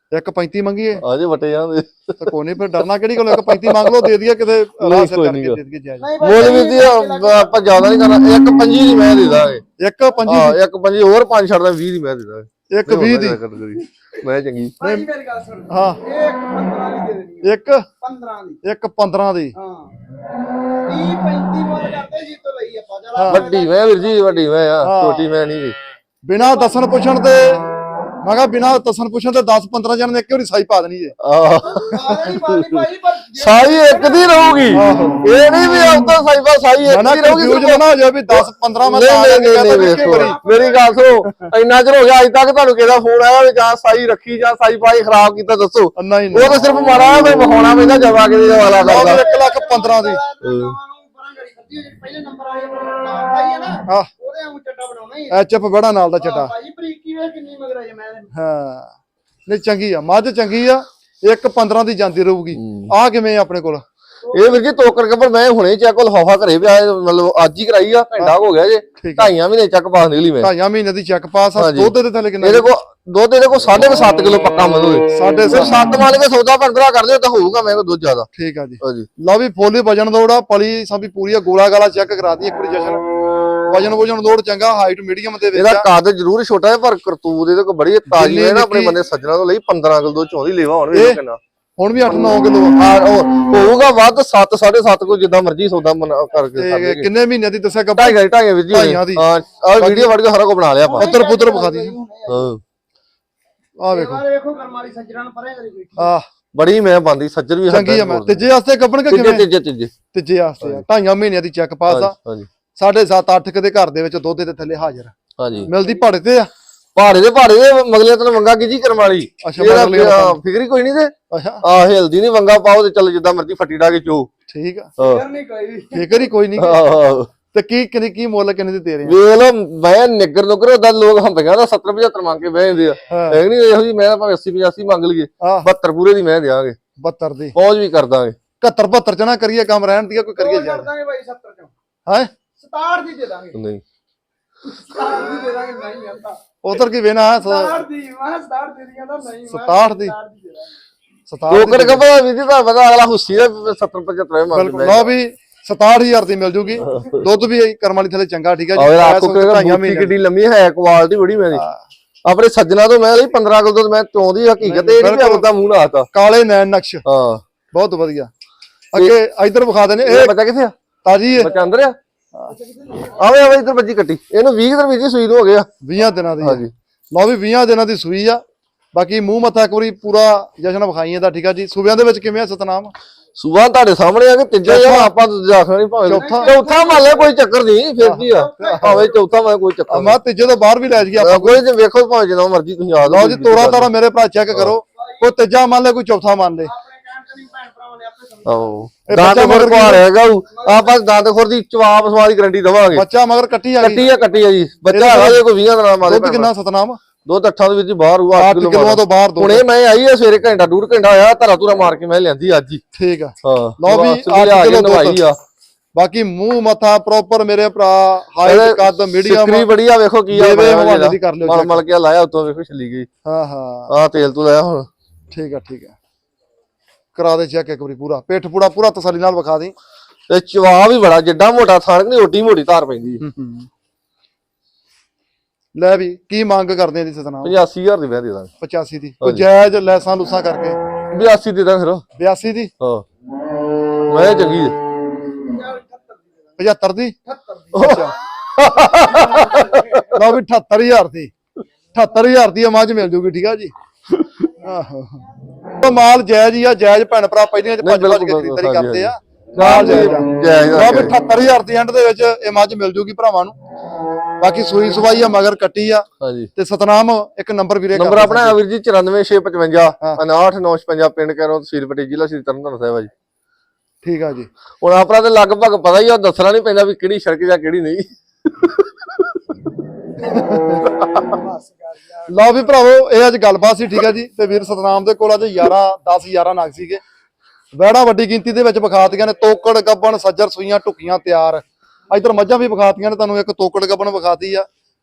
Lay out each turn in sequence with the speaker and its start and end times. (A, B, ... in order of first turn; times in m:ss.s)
0:00.1-0:01.0 A
0:01.0-0:02.3 B
0:02.2-0:06.1 A
0:03.2-0:04.1 B
0:04.8-0:05.6 B
0:06.0-0:07.6 C
0:06.2-0:09.6 B
0:09.8-0:10.6 A
0:10.3-0:14.8 B
0:12.7-0:13.4 A
0:14.8-0:18.6 C
0:14.8-0:15.1 A
0:15.7-0:16.0 A
0:17.4-0:17.9 A
0:18.6-0:19.6 A
0:19.6-0:19.9 C
0:20.9-0:24.4 C
0:23.2-0:23.4 A
0:23.3-0:25.8 B
0:24.8-0:25.3 A
0:26.3-0:27.7 A
0:26.4-0:26.7 C
0:28.2-0:31.2 A
0:31.2-0:32.8 B
0:31.6-0:34.5 C
0:31.9-0:32.2 A
0:33.4-0:49.2 B
0:34.7-0:35.2 A
0:36.8-0:40.4 A
0:39.6-0:41.0 C
0:46.0-0:46.7 A
0:48.7-0:55.4 C
0:48.8-0:50.2 A
0:50.4-0:50.8 B
0:55.3-0:56.5 A
0:56.2-0:58.3 C
0:58.4-0:58.9 A
0:59.4-1:03.8 A
1:02.6-1:02.9 B
1:04.2-1:04.6 C
1:04.3-1:10.5 B
1:09.0-1:09.3 A
1:10.4-1:12.7 A
1:11.6-1:18.3 B
1:15.1-1:15.8 A
1:18.4-1:23.0 A
1:18.8-1:19.1 B
1:23.7-1:25.9 A
1:25.5-1:31.4 B
1:28.1-1:28.9 A
1:30.9-1:31.2 A
1:31.8-1:32.8 A
1:32.7-1:37.1 B
1:36.6-1:39.3 A
1:38.0-1:41.1 B
1:39.8-1:40.1 A
1:40.8-1:42.5 C
1:41.0-1:41.9 A
1:42.3-1:42.6 B
1:43.8-1:44.2 A
1:43.9-1:46.1 C
1:46.0-1:46.3 A
1:46.5-1:48.4 B
1:47.7-1:49.4 A
1:49.1-1:49.9 B
1:50.1-1:52.1 A
1:51.9-1:52.5 B
1:52.8-1:55.1 A
1:55.4-1:55.7 B
1:55.6-1:56.5 A
1:56.9-2:04.3 B
1:59.4-2:00.4 A
2:01.3-2:01.6 A
2:04.5-2:04.9 A
2:05.0-2:05.2 B
2:05.0-2:06.3 C
2:05.9-2:06.9 A
2:06.6-2:07.3 B
2:07.5-2:09.1 A
2:09.0-2:16.8 B
2:13.1-2:13.4 A
2:15.4-2:15.7 A
2:17.0-2:17.5 A
2:17.6-2:18.4 B
2:18.6-2:20.9 A
2:20.4-2:21.7 C
2:22.6-2:23.6 C
2:23.5-2:23.8 B
2:24.6-2:26.4 C
2:26.6-2:27.8 A
2:27.4-2:30.8 C
2:29.5-2:30.1 A
2:31.3-2:32.0 A
2:31.5-2:35.1 B
2:34.5-2:40.1 A
2:36.9-2:37.2 B
2:38.8-2:41.6 B
2:41.5-2:41.8 A
2:42.2-2:46.1 B
2:44.6-2:45.5 A
2:46.1-2:47.0 A
2:47.0-2:47.4 B
2:47.7-2:48.3 A
2:48.9-2:50.4 A
2:50.0-2:50.8 B
2:51.0-2:51.5 A
2:51.3-2:52.0 B
2:52.5-2:53.2 C
2:53.1-2:55.7 B
2:55.8-2:56.6 A
2:56.4-2:56.7 B
2:57.1-2:58.4 A
2:58.9-3:02.9 A
3:03.4-3:10.2 B
3:04.6-3:05.1 A
3:06.1-3:06.5 A
3:06.1-3:07.4 C
3:08.0-3:09.1 A
3:08.1-3:09.2 C
3:09.9-3:11.6 A
3:11.2-3:13.9 B
3:13.0-3:16.7 A
3:15.0-3:15.3 C
3:16.6-3:18.7 C
3:18.4-3:23.0 B
3:19.1-3:20.1 A
3:20.5-3:21.0 C
3:22.9-3:24.0 A
3:23.8-3:26.5 B
3:24.9-3:25.4 A
3:26.0-3:27.0 A
3:27.2-3:32.8 B
3:28.4-3:29.6 A
3:32.9-3:35.2 A
3:33.4-3:35.4 B
3:36.0-3:39.7 A
3:38.4-3:43.1 B
3:40.3-3:41.8 A
3:43.2-3:43.9 A
3:43.9-3:44.9 B
3:45.3-3:45.9 A
3:47.1-3:49.7 A
3:50.3-3:53.2 B
3:53.2-3:53.7 A
3:55.8-3:57.5 A
3:57.4-3:58.5 B
3:58.6-4:00.8 A
4:01.1-4:02.0 B
4:02.2-4:02.7 A
4:02.8-4:03.0 B
4:04.1-4:04.8 B
4:05.4-4:06.6 C
4:06.6-4:07.2 A
4:07.3-4:08.1 C
4:07.7-4:10.2 B
4:07.8-4:08.1 A
4:08.9-4:10.1 C
4:10.1-4:11.3 A
4:11.9-4:13.7 A
4:14.4-4:15.2 A
4:15.8-4:23.6 A
4:17.8-4:21.1 B
4:24.4-4:28.6 A
4:26.2-4:26.5 B
4:27.9-4:33.1 B
4:34.0-4:34.5 A
4:34.8-4:39.4 B
4:40.2-4:40.8 A
4:40.9-4:42.3 C
4:41.0-4:41.3 B
4:42.3-4:47.0 A
4:47.8-4:54.7 A